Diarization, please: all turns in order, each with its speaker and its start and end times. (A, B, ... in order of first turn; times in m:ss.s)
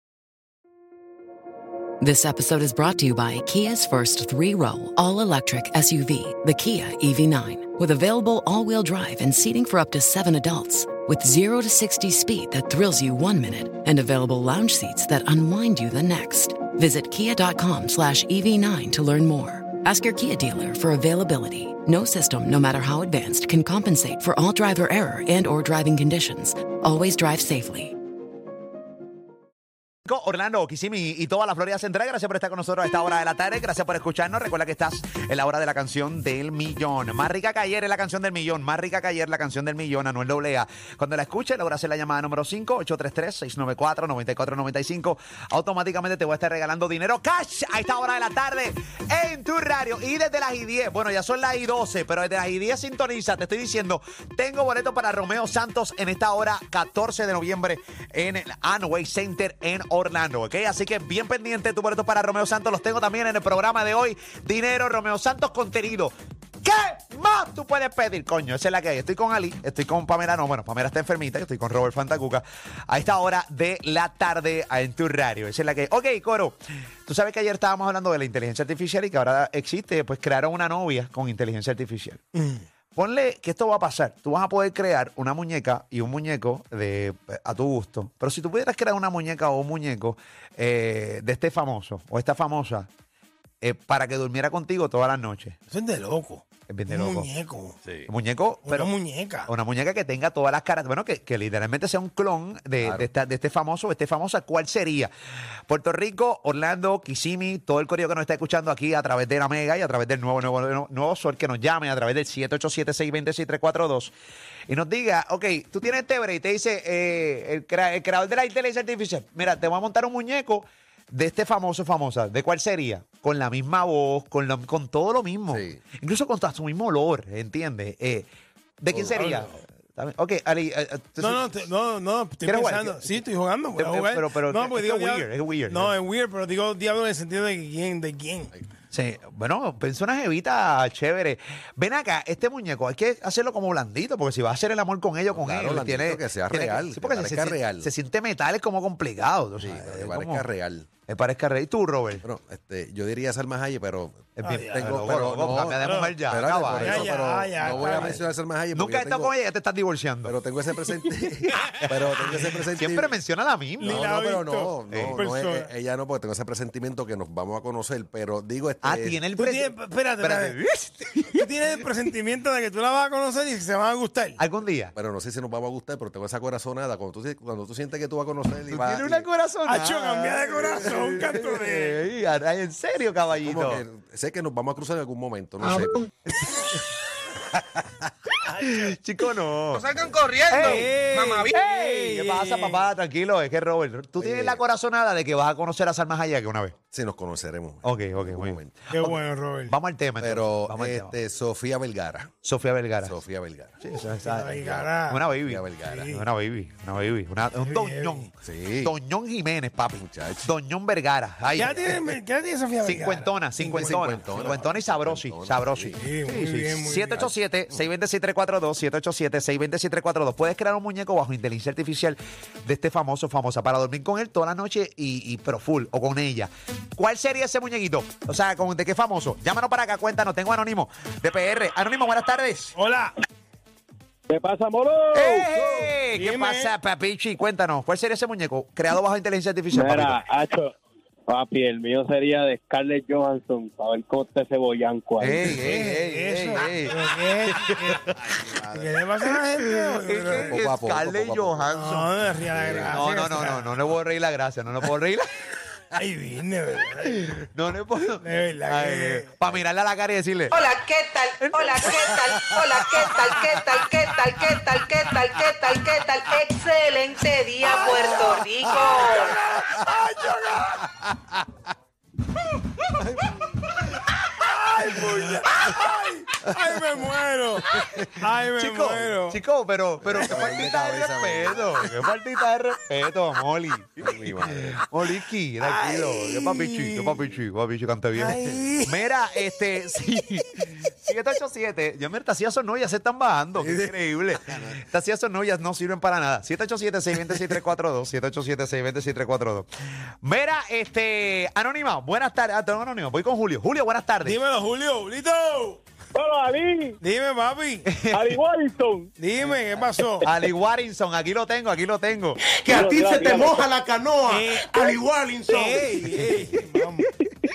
0:02.0-0:27.9 A
0:30.0-1:22.2 B
1:22.3-1:22.6 C
1:22.9-1:32.9 B
1:33.6-1:35.6 B
1:35.7-1:37.8 C
1:36.7-1:37.3 B
1:37.8-1:38.1 D
1:38.1-1:38.9 B
1:38.6-1:39.5 C
1:39.5-1:45.1 B
1:42.8-1:43.1 D
1:45.7-1:54.1 B
1:54.7-2:08.3 B
2:05.5-2:05.8 D
2:08.8-2:11.5 B
2:08.9-2:09.2 D
2:09.1-2:09.6 C
2:11.2-2:18.5 C
2:12.4-2:13.2 B
2:13.8-2:15.9 B
2:18.9-2:30.5 B
2:25.3-2:27.9 D
2:29.6-2:30.9 D
2:31.1-2:32.2 B
2:32.2-2:39.3 D
2:34.4-2:38.2 B
2:34.4-2:35.0 C
2:35.8-2:36.2 C
2:36.7-2:38.3 C
2:38.7-2:40.3 B
2:40.2-2:43.1 D
2:42.7-2:44.0 B
2:43.8-2:45.7 C
2:43.8-2:49.2 D
2:44.9-2:45.2 B
2:48.8-2:51.4 B
2:49.3-2:50.6 C
2:51.3-2:54.4 C
2:54.4-2:54.9 B
2:54.9-2:59.3 D
2:58.7-3:03.8 B
2:59.6-3:02.0 C
3:03.4-3:06.0 D
3:06.4-3:06.8 B
3:08.6-3:10.9 B
3:09.7-3:11.5 E
3:10.6-3:12.9 C
3:11.5-3:16.8 B
3:14.2-3:14.6 D
3:16.9-3:18.8 D
3:17.8-3:21.2 B
3:18.9-3:19.7 C
3:20.2-3:22.3 D
3:22.4-3:23.2 B
3:23.0-3:23.8 D
3:23.8-3:28.3 B
3:24.2-3:25.2 C
3:24.6-3:24.9 D
3:25.4-3:26.1 D
3:25.8-3:26.2 C
3:27.6-3:28.3 C
3:28.4-3:28.9 D
3:28.8-3:32.0 B
3:30.0-3:30.5 D
3:31.5-3:34.4 C
3:32.8-3:52.7 B
3:33.7-3:36.0 D
3:36.0-3:37.3 C
3:52.7-3:53.1 C
3:54.3-3:55.9 F
3:55.1-4:00.2 B
3:56.1-3:56.7 C
3:59.7-4:00.7 F
4:01.3-4:05.6 F
4:05.2-4:06.9 B
4:05.5-4:08.1 C
4:07.5-4:08.1 B
4:08.2-4:08.9 D
4:08.7-4:10.6 C
4:09.5-4:12.1 B
4:10.5-4:11.6 D
4:11.7-4:13.7 C
4:12.5-4:13.0 D
4:12.8-4:15.3 B
4:15.9-4:17.3 C
4:17.1-4:20.6 B
4:18.2-4:19.3 C
4:20.5-4:29.4 G
4:21.4-4:25.4 B
4:27.6-4:30.9 C
4:34.4-4:39.4 C
4:34.8-4:35.7 B
4:38.6-4:59.7 B
4:40.0-4:42.0 D
4:44.0-4:44.8 D
4:45.6-4:47.3 C
4:48.1-4:49.0 C
4:53.5-4:54.0 D
4:54.5-4:54.8 D
5:00.2-5:04.4 B
5:04.2-5:05.8 C
5:06.1-5:07.0 F
5:07.0-5:07.9 C
5:07.9-5:08.4 B
5:08.1-5:09.1 F
5:09.2-5:10.2 C
5:10.2-5:12.4 B
5:12.4-5:16.0 E
5:12.7-5:13.7 F
5:14.3-5:17.1 C